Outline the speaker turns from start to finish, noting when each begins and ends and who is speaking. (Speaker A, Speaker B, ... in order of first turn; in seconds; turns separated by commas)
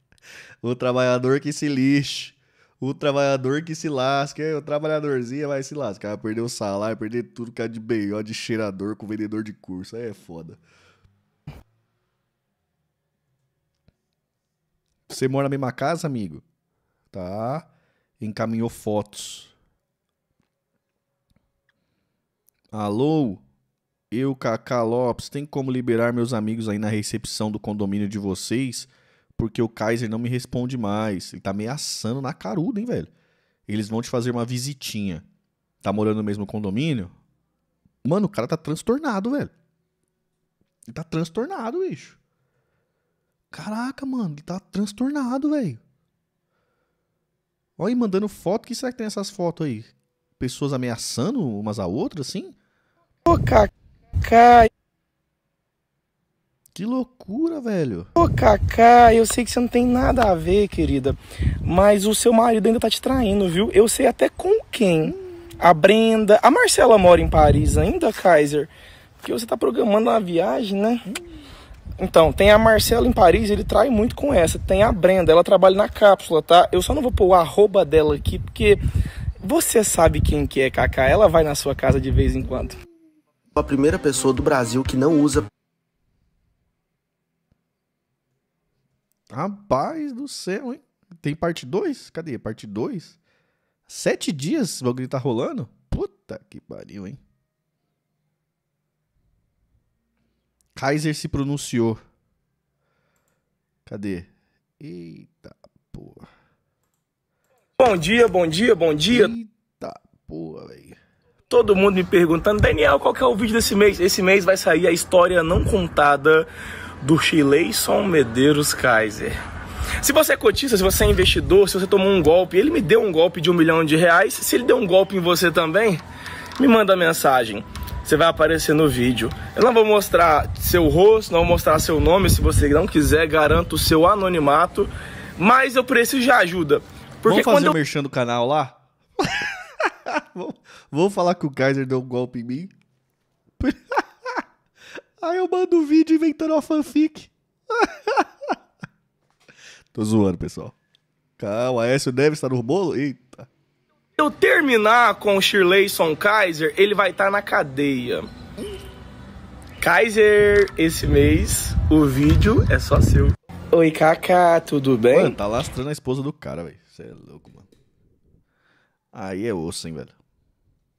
Speaker A: 0.6-10.6, Speaker A: 15.1-16.4, Speaker A: 17.1-17.7, Speaker A: 18.2-19.5, Speaker A: 22.7-23.4, Speaker A: 24.1-33.1, Speaker A: 33.7-35.2, Speaker A: 35.8-37.1, Speaker A: 38.0-39.5, Speaker A: 40.9-42.2, Speaker A: 43.5-45.8, Speaker A: 47.8-52.5, Speaker B: 53.2-53.7, Speaker B: 54.2-54.7, Speaker A: 56.7-58.1, Speaker B: 58.1-68.7, Speaker A: 65.0-65.4, Speaker B: 69.2-71.1, Speaker B: 72.0-78.8, Speaker B: 79.4-82.8, Speaker C: 83.5-85.5, Speaker A: 89.3-93.2, Speaker A: 93.9-97.2, Speaker A: 100.8-102.0, Speaker A: 103.8-106.3, Speaker B: 107.8-109.3, Speaker A: 109.1-111.0, Speaker B: 111.5-116.5, Speaker B: 117.0-119.4, Speaker B: 120.0-126.0, Speaker B: 126.6-137.8, Speaker A: 137.2-142.7, Speaker A: 143.6-144.4, Speaker A: 145.2-148.6, Speaker A: 149.9-150.7, Speaker A: 151.4-153.5, Speaker B: 154.2-158.3, Speaker B: 159.8-165.4, Speaker A: 165.1-167.7, Speaker A: 169.1-170.2